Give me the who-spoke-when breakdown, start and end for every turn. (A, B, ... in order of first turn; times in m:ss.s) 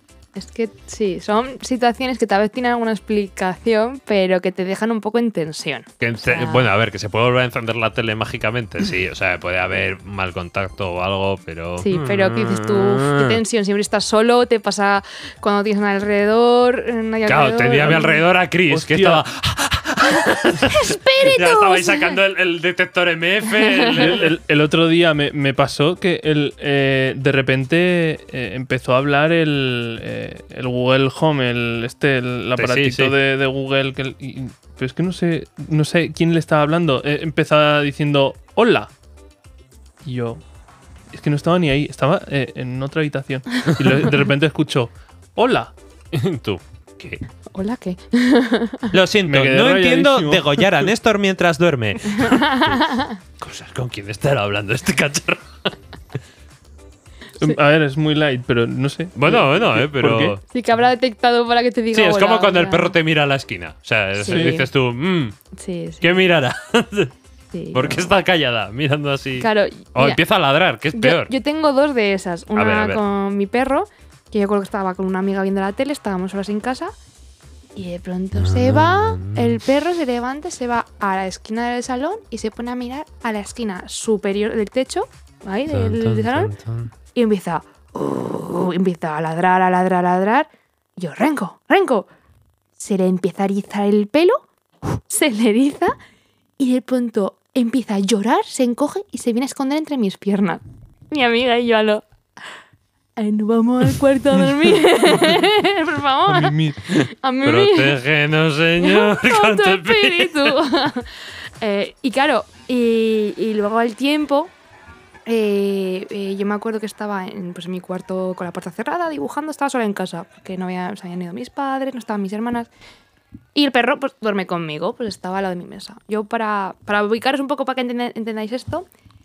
0:00.4-0:06.7 A
0:06.0-0:13.4 B
0:11.8-0:18.2 A
0:17.2-0:24.3 B
0:18.7-0:19.2 C
0:20.6-0:22.2 A
0:24.0-0:38.9 C
0:32.6-0:33.2 B
0:40.0-0:40.4 C
0:41.1-0:45.7 C
0:46.1-0:47.2 B
0:47.5-0:48.9 A
0:48.9-0:55.7 B
0:49.2-0:50.9 C
0:52.1-0:53.2 A
0:57.4-1:00.4 C
0:59.2-1:00.4 B
1:00.5-1:02.9 A
1:01.9-1:05.4 B
1:04.2-1:04.7 A
1:04.3-1:04.6 C
1:05.5-1:06.2 A
1:06.0-1:07.1 B
1:07.5-1:08.1 A
1:07.7-1:11.3 B
1:09.4-1:10.2 A
1:10.9-1:16.9 A
1:12.6-1:13.0 B
1:17.7-1:26.5 A
1:18.3-1:19.6 B
1:25.7-1:26.9 B
1:27.1-1:32.1 A
1:32.8-1:36.0 A
1:36.6-1:42.0 A
1:43.2-1:48.0 A
1:45.2-1:45.4 C
1:46.3-1:46.8 C
1:46.9-1:50.6 B
1:48.8-1:54.5 A
1:55.3-2:02.7 A
2:03.5-2:08.9 A